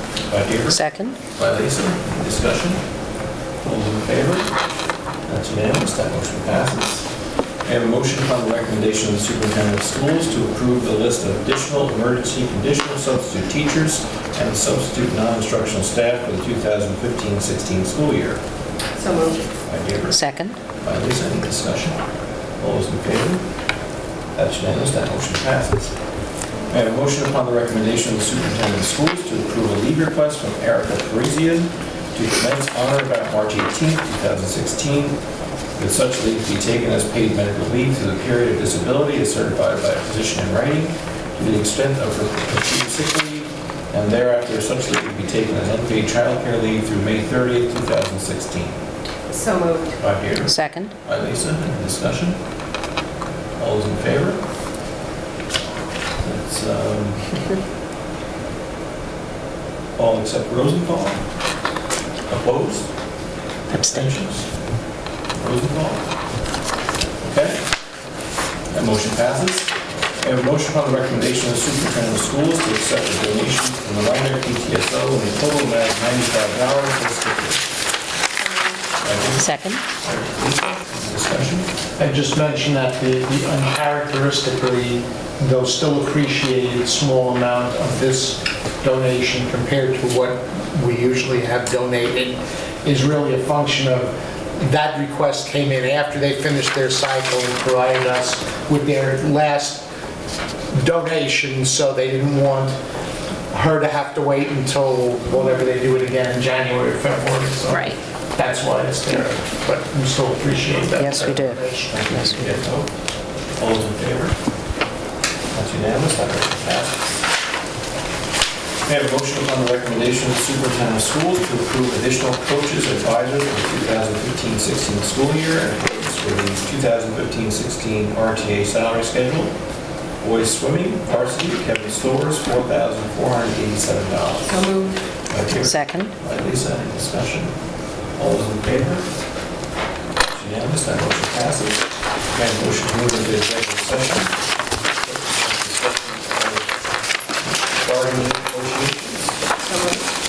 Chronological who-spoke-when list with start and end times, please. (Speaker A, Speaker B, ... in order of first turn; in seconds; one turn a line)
Speaker A: 0.3-0.8
Speaker B: 0.7-1.2
Speaker A: 1.3-2.8
Speaker A: 3.6-4.5
Speaker A: 5.3-7.1
Speaker A: 7.6-18.4
Speaker C: 19.0-19.5
Speaker A: 19.6-20.2
Speaker B: 20.1-20.6
Speaker A: 20.8-22.0
Speaker A: 22.6-23.4
Speaker A: 24.4-25.9
Speaker A: 26.7-35.2
Speaker A: 35.8-48.8
Speaker C: 49.3-50.0
Speaker A: 50.0-52.4
Speaker B: 50.5-50.9
Speaker A: 53.6-54.4
Speaker A: 56.2-57.4
Speaker A: 60.0-61.2
Speaker A: 62.3-62.9
Speaker A: 63.7-64.5
Speaker B: 63.7-64.1
Speaker A: 65.4-66.0
Speaker A: 67.2-67.6
Speaker A: 68.7-77.7
Speaker C: 78.4-78.8
Speaker A: 79.0-81.7
Speaker B: 79.4-79.8
Speaker D: 82.0-99.8
Speaker D: 100.7-102.8
Speaker D: 103.5-112.0
Speaker B: 111.0-112.5
Speaker A: 111.9-112.9
Speaker A: 113.6-114.4
Speaker A: 115.5-117.0
Speaker A: 118.8-129.5
Speaker A: 130.2-134.7
Speaker C: 134.4-135.0
Speaker A: 135.3-137.5
Speaker B: 135.6-136.1
Speaker A: 138.2-139.1
Speaker A: 140.3-144.3
Speaker A: 145.0-146.7
Speaker A: 147.4-149.4
Speaker C: 149.6-150.1